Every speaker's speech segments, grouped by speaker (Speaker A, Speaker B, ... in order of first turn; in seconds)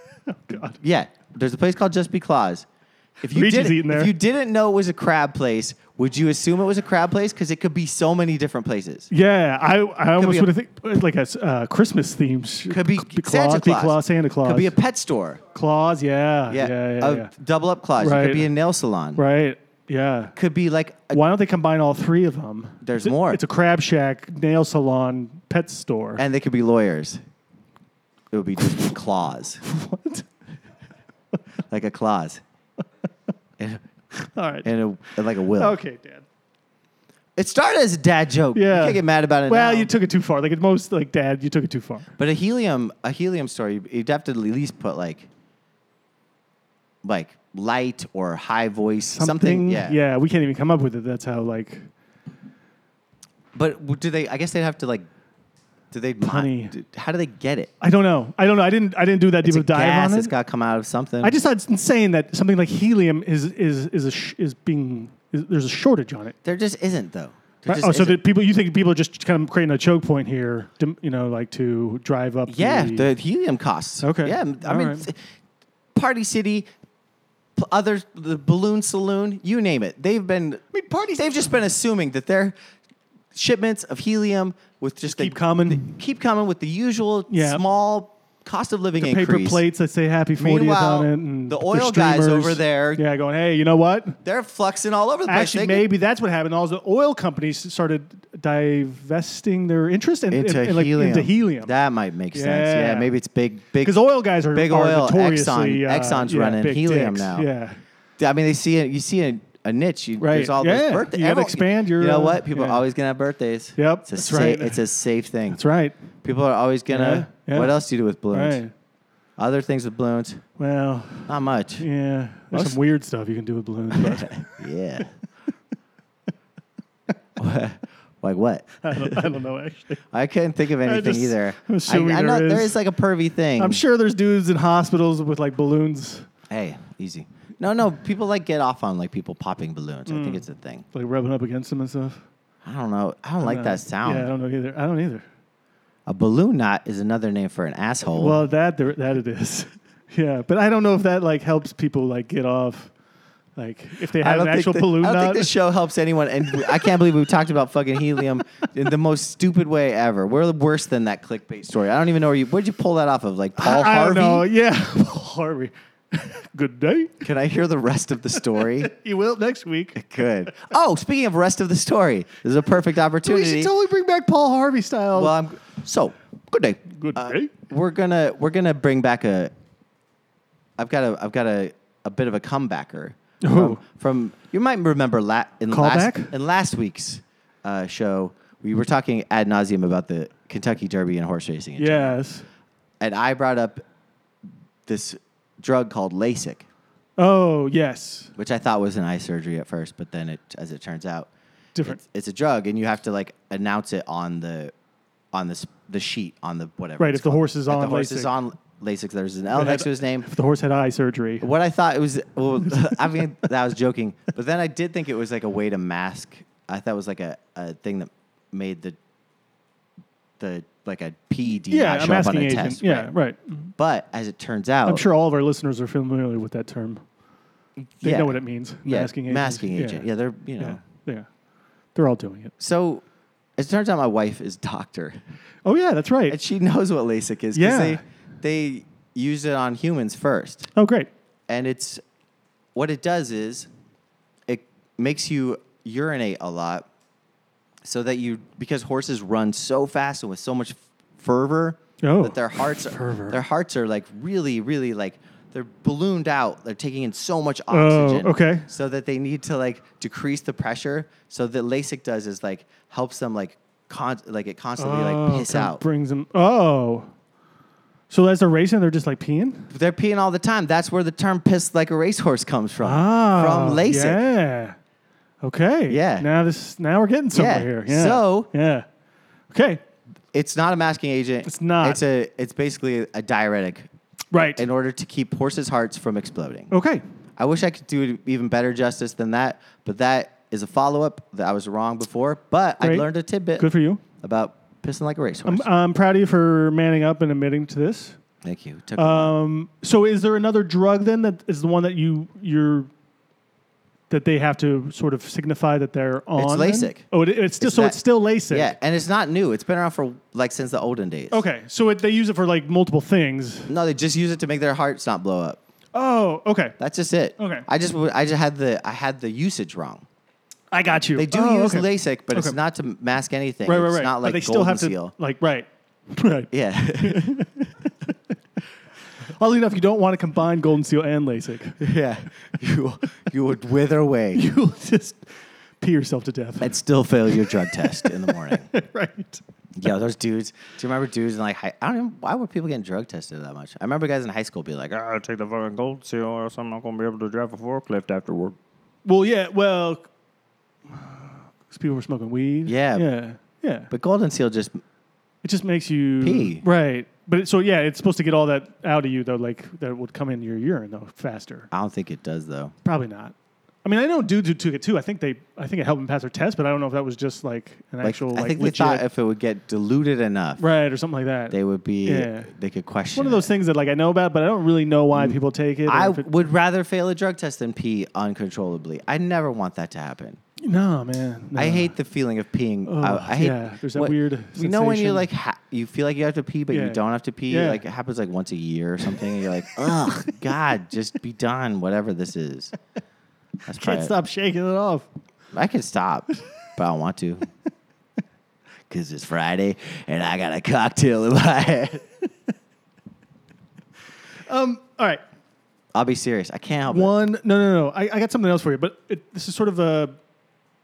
Speaker A: 0.3-0.8, 3.3-4.1, 9.1-14.7, 15.5-17.3, 18.0-18.5, 19.1-20.3, 21.1-26.2, 29.6-30.3, 34.1-34.7, 35.5-36.2, 38.5-42.1, 49.1-51.9, 56.2-56.8, 57.8-60.3, 61.2-66.3, 67.7-73.1, 74.0-75.0, 80.7-81.4, 85.1-85.9, 87.3-87.6, 89.0-94.2, 95.3-101.7, 102.3-103.1, 103.8-107.8, 110.2-112.8, 113.8-114.8, 115.5-115.9, 116.9-117.8, 118.3-118.7, 120.6-124.6, 128.8-130.0, 130.8-132.8, 133.6-136.3, 140.1-142.2, 143.4-145.2, 148.1-152.9, 153.6-155.5, 156.6-156.9, 163.6-167.2, 168.5-170.7, 173.2-175.3, 176.9-177.5, 183.4-183.8, 185.7-186.3, 191.8-192.4, 197.2-198.3, 207.0-208.3, 209.5-211.5, 221.7-223.7, 224.8-227.0, 228.0-230.0, 230.6-231.3, 231.9-232.5, 235.6-236.4, 237.5-238.0, 240.7-241.1, 252.0-253.4, 257.7-258.7, 264.8-267.1, 268.1-269.7, 272.8-274.8, 275.4-278.8, 279.5-279.8, 281.4-282.0, 284.3-284.6, 286.7-287.0, 292.8-294.0, 295.4-298.2, 299.0-302.9, 304.1-308.7, 311.3-313.7, 315.9-316.7, 317.4-317.6, 320.7-322.6, 323.6-328.1, 329.2-331.9, 334.3-339.4, 349.0-350.1, 350.9-353.9, 355.4-361.7, 362.8-369.0, 370.6-372.5, 373.1-376.3, 380.6-381.9, 382.9-385.2, 386.7-387.8, 393.7-395.1, 404.5-405.2, 406.9-410.2
Speaker B: 0.8-2.6, 3.2-9.1, 10.2-10.5, 12.7-15.4, 16.5-19.2, 20.3-21.2, 22.8-23.4, 26.2-27.2, 28.3-29.6, 31.7-32.4, 33.6-33.8, 34.6-35.8, 37.4-39.9, 42.2-45.3, 47.0-50.0, 53.5-55.1, 55.9-57.7, 59.4-61.3, 66.4-68.2, 72.5-75.2, 75.9-76.7, 77.5-80.6, 81.1-82.5, 83.3-89.6, 90.4-93.0, 94.2-95.9, 100.3-103.9, 104.5-107.5, 108.2-115.6, 116.2-118.6, 119.4-120.4, 121.3-121.8, 123.9-125.1, 127.4-129.3, 130.1-133.8, 136.5-140.8, 142.6-144.3, 146.1-148.4, 154.2-164.5, 167.2-168.9, 169.9-173.7, 175.1-179.5, 180.8-192.2, 193.0-193.8, 194.8-196.6, 198.3-201.3, 201.8-204.7, 205.3-210.2, 211.4-219.0, 220.4-223.1, 223.8-225.1, 227.8-230.8, 232.6-233.0, 233.6-235.2, 236.3-240.7, 241.5-242.0, 242.7-243.7, 244.5-246.9, 247.8-265.8, 269.7-274.2, 275.9-276.2, 277.3-278.5, 280.3-286.7, 287.4-293.7, 294.2-295.6, 298.4-299.3, 306.4-307.0, 307.6-308.0, 308.5-311.4, 313.7-315.6, 316.8-320.0, 321.1-325.1, 326.5-327.3, 331.8-334.4, 336.6-338.7, 339.8-345.0, 352.6-353.1, 353.9-354.8, 356.2-356.6, 361.7-362.7, 368.0-370.6, 371.5-373.5, 375.1-380.4, 381.6-392.7, 393.7-394.1, 395.5-397.5, 398.9-402.1, 405.9-407.1
Speaker C: 344.9-348.6